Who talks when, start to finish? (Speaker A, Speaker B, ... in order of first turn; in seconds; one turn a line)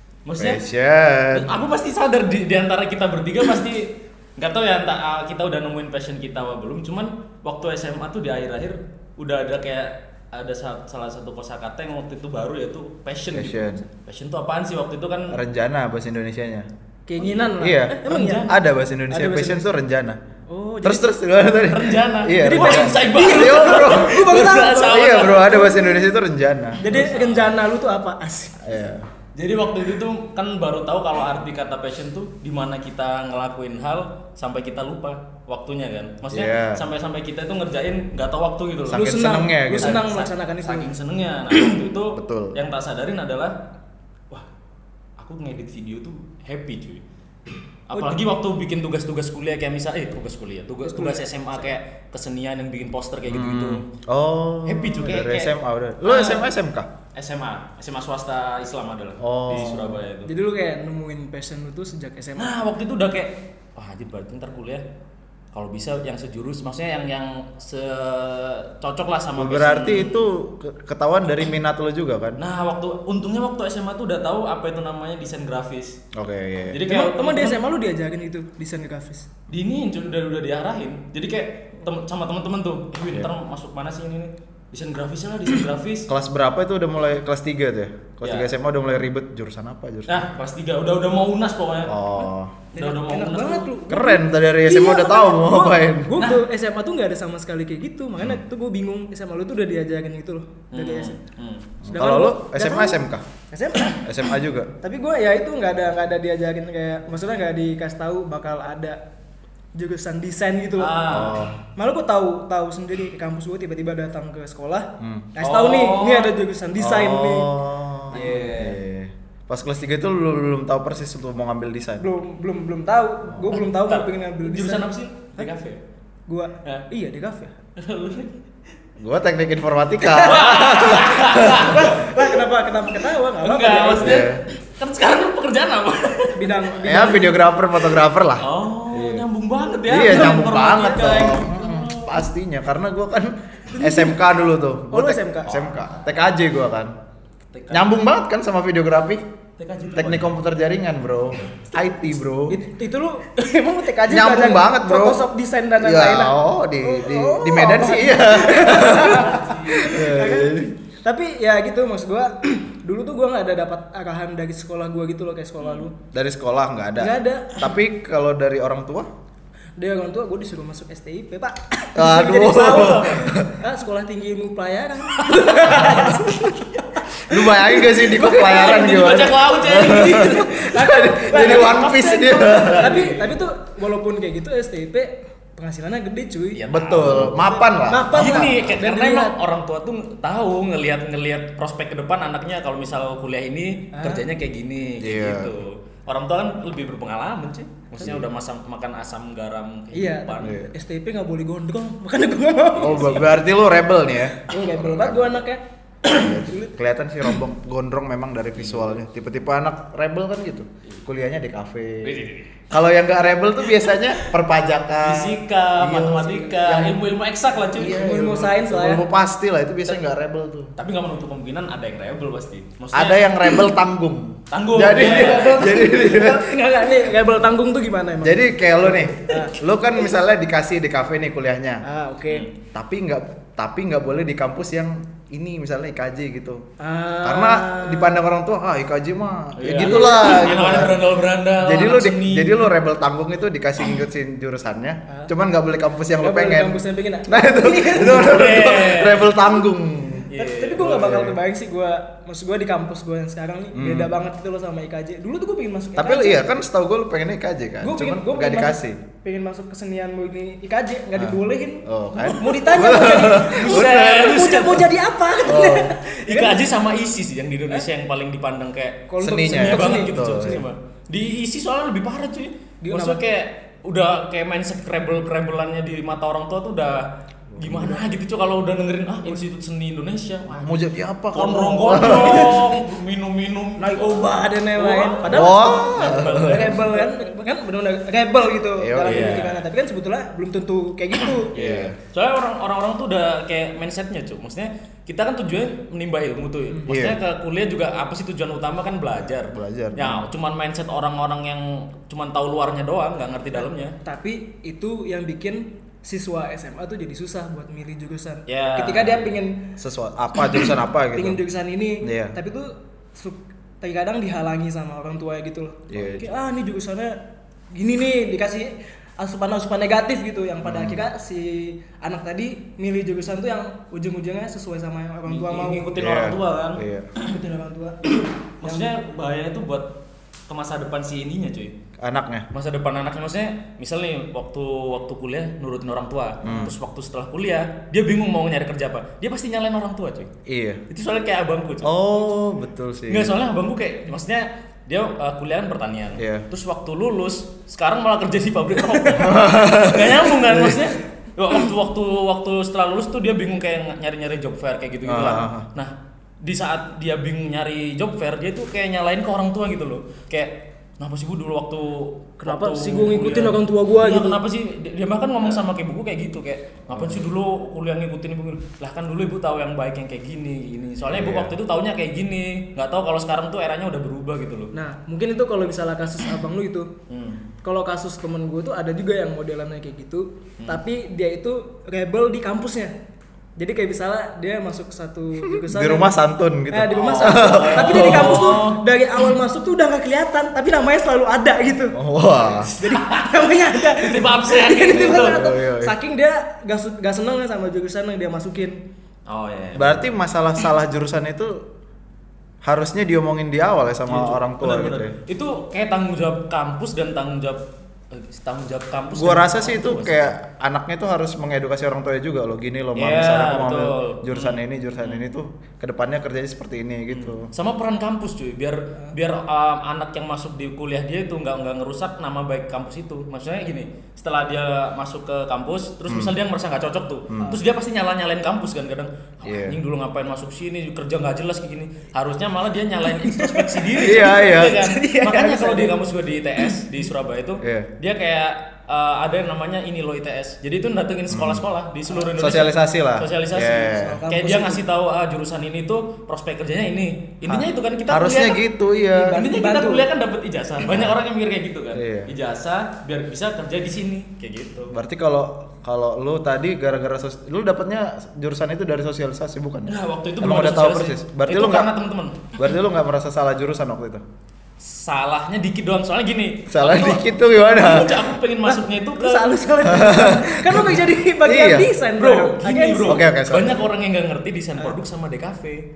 Speaker A: 0.2-0.6
Speaker B: 0.3-1.5
Speaker A: 1.3-15.4
Speaker B: 13.3-13.8
Speaker B: 15.3-16.7
Speaker C: 17.1-18.5
Speaker B: 17.6-20.2
Speaker A: 18.1-18.5
Speaker C: 19.1-19.7
Speaker C: 20.5-21.1
Speaker B: 20.8-24.2
Speaker A: 21.5-25.6
Speaker C: 22.4-26.0
Speaker B: 24.9-26.8
Speaker C: 26.8-28.6
Speaker A: 26.8-27.6
Speaker B: 28.6-29.1
Speaker A: 29.4-43.5
Speaker B: 36.3-36.8
Speaker B: 38.9-40.0
Speaker C: 38.9-40.9
Speaker B: 42.1-42.6
Speaker A: 45.2-47.0
Speaker A: 47.9-53.8
Speaker C: 50.8-51.7
Speaker B: 53.3-56.9
Speaker A: 54.6-56.5
Speaker A: 57.1-60.3
Speaker B: 59.2-60.0
Speaker C: 60.2-62.5
Speaker A: 62.4-64.8
Speaker A: 65.5-70.2
Speaker B: 69.3-72.4
Speaker A: 72.4-76.0
Speaker B: 76.1-76.8
Speaker A: 76.7-77.6
Speaker C: 76.8-79.3
Speaker A: 79.5-86.1
Speaker B: 86.1-90.2
Speaker A: 88.2-88.5
Speaker A: 90.1-93.7
Speaker B: 91.8-92.5
Speaker C: 92.8-101.1
Speaker B: 93.9-96.2
Speaker A: 100.7-101.7
Speaker B: 101.8-103.2
Speaker C: 101.9-103.0
Speaker C: 103.5-104.1
Speaker B: 104.0-104.7
Speaker C: 104.8-109.0
Speaker C: 109.7-110.9
Speaker A: 110.8-111.5
Speaker B: 111.0-111.6
Speaker C: 111.8-117.5
Speaker B: 115.0-115.3
Speaker A: 115.4-116.3
Speaker B: 116.8-122.0
Speaker A: 118.1-118.8
Speaker C: 118.1-118.4
Speaker C: 122.0-125.5
Speaker A: 123.5-125.8
Speaker C: 126.3-127.5
Speaker A: 127.8-128.4
Speaker B: 129.0-131.7
Speaker C: 130.1-130.5
Speaker A: 130.2-132.0
Speaker C: 131.4-134.2
Speaker A: 133.4-136.5
Speaker B: 134.0-134.4
Speaker C: 136.3-137.3
Speaker B: 136.8-139.2
Speaker A: 138.4-142.2
Speaker B: 139.9-146.9
Speaker C: 140.1-141.1
Speaker C: 143.8-144.1
Speaker C: 144.9-145.5
Speaker A: 145.5-145.8
Speaker A: 147.5-147.9
Speaker B: 147.7-149.2
Speaker A: 149.6-150.3
Speaker B: 149.9-152.6
Speaker C: 152.5-165.9
Speaker B: 154.1-155.2
Speaker B: 155.8-160.7
Speaker A: 158.3-159.9
Speaker B: 166.1-169.1
Speaker C: 167.0-167.7
Speaker C: 169.8-176.7
Speaker B: 171.9-173.5
Speaker A: 172.6-173.2
Speaker B: 177.3-183.1
Speaker A: 178.1-180.6
Speaker C: 179.9-186.6
Speaker A: 181.4-183.4
Speaker A: 186.5-187.4
Speaker B: 186.7-188.8
Speaker C: 187.5-189.3
Speaker A: 188.1-200.6
Speaker C: 193.9-194.2
Speaker B: 195.0-195.5
Speaker B: 198.0-198.2
Speaker C: 199.9-203.3
Speaker B: 200.4-200.7
Speaker B: 202.8-205.4
Speaker C: 204.4-206.7
Speaker B: 206.1-217.0
Speaker A: 208.6-209.0
Speaker A: 212.0-212.6
Speaker A: 215.0-218.0
Speaker B: 217.7-220.7
Speaker C: 217.8-219.0
Speaker A: 220.8-223.4
Speaker B: 222.9-226.4
Speaker A: 224.5-225.8
Speaker C: 224.9-229.5
Speaker B: 228.2-231.8
Speaker C: 231.8-232.4
Speaker B: 232.7-236.6
Speaker C: 236.8-238.2
Speaker B: 237.2-250.3
Speaker A: 239.6-242.7
Speaker C: 239.8-240.6
Speaker C: 246.2-248.4
Speaker A: 248.1-249.4
Speaker A: 250.3-251.0
Speaker C: 250.3-256.4
Speaker B: 250.8-251.3
Speaker B: 253.7-254.1
Speaker B: 255.9-259.0
Speaker C: 257.8-266.6
Speaker B: 261.1-264.5
Speaker A: 262.4-264.9
Speaker B: 265.4-265.9
Speaker A: 266.2-277.1
Speaker C: 269.1-270.1
Speaker B: 269.2-270.6
Speaker C: 272.8-273.2
Speaker B: 277.6-278.0
Speaker A: 277.6-287.1
Speaker B: 280.5-282.6
Speaker C: 282.0-282.4
Speaker C: 283.8-291.5
Speaker B: 285.3-286.8
Speaker B: 288.8-289.5
Speaker A: 289.0-289.6
Speaker A: 291.4-303.9
Speaker B: 291.5-291.9
Speaker B: 296.9-297.2
Speaker B: 299.4-300.3
Speaker C: 304.0-309.6
Speaker A: 308.5-309.3
Speaker B: 309.8-311.4
Speaker C: 311.1-317.1
Speaker B: 312.0-312.3
Speaker B: 315.9-316.3
Speaker C: 317.7-325.9
Speaker B: 320.6-321.0
Speaker A: 325.2-327.4
Speaker B: 325.9-327.1
Speaker C: 327.2-328.9
Speaker A: 328.6-329.9
Speaker A: 330.5-331.7
Speaker B: 332.0-332.5
Speaker A: 332.5-340.3
Speaker B: 336.4-336.7
Speaker B: 340.4-340.8
Speaker A: 340.9-342.3
Speaker B: 341.8-343.4
Speaker A: 343.1-374.7
Speaker B: 346.2-346.4
Speaker B: 349.1-350.9
Speaker B: 355.0-355.6
Speaker C: 362.4-364.4
Speaker B: 366.9-367.2
Speaker B: 371.1-371.5
Speaker C: 374.7-376.9
Speaker A: 377.1-377.4
Speaker C: 377.6-382.9
Speaker C: 383.6-386.1
Speaker B: 385.5-388.5
Speaker C: 386.7-392.0
Speaker A: 386.9-388.8
Speaker B: 391.9-392.7
Speaker C: 392.8-398.8
Speaker A: 392.8-395.4
Speaker B: 394.9-395.9
Speaker A: 399.3-400.1
Speaker B: 399.7-401.6
Speaker B: 402.6-405.1
Speaker A: 404.1-410.3
Speaker B: 409.1-417.5
Speaker A: 412.9-415.3
Speaker A: 417.1-448.6
Speaker B: 426.1-426.3
Speaker B: 427.3-427.6
Speaker B: 429.4-429.8
Speaker C: 433.2-435.9
Speaker B: 434.0-434.8
Speaker B: 437.6-437.9
Speaker B: 441.3-441.6
Speaker B: 442.2-444.2
Speaker C: 443.9-444.8
Speaker B: 447.4-449.4
Speaker C: 449.1-450.0
Speaker A: 449.3-454.9
Speaker B: 450.8-451.1
Speaker B: 451.9-452.3
Speaker B: 454.9-461.9
Speaker A: 459.9-462.5
Speaker B: 462.6-464.2
Speaker A: 464.8-469.6
Speaker B: 466.7-468.2
Speaker C: 468.6-473.2
Speaker B: 469.8-471.9
Speaker A: 472.2-475.8
Speaker B: 473.1-473.8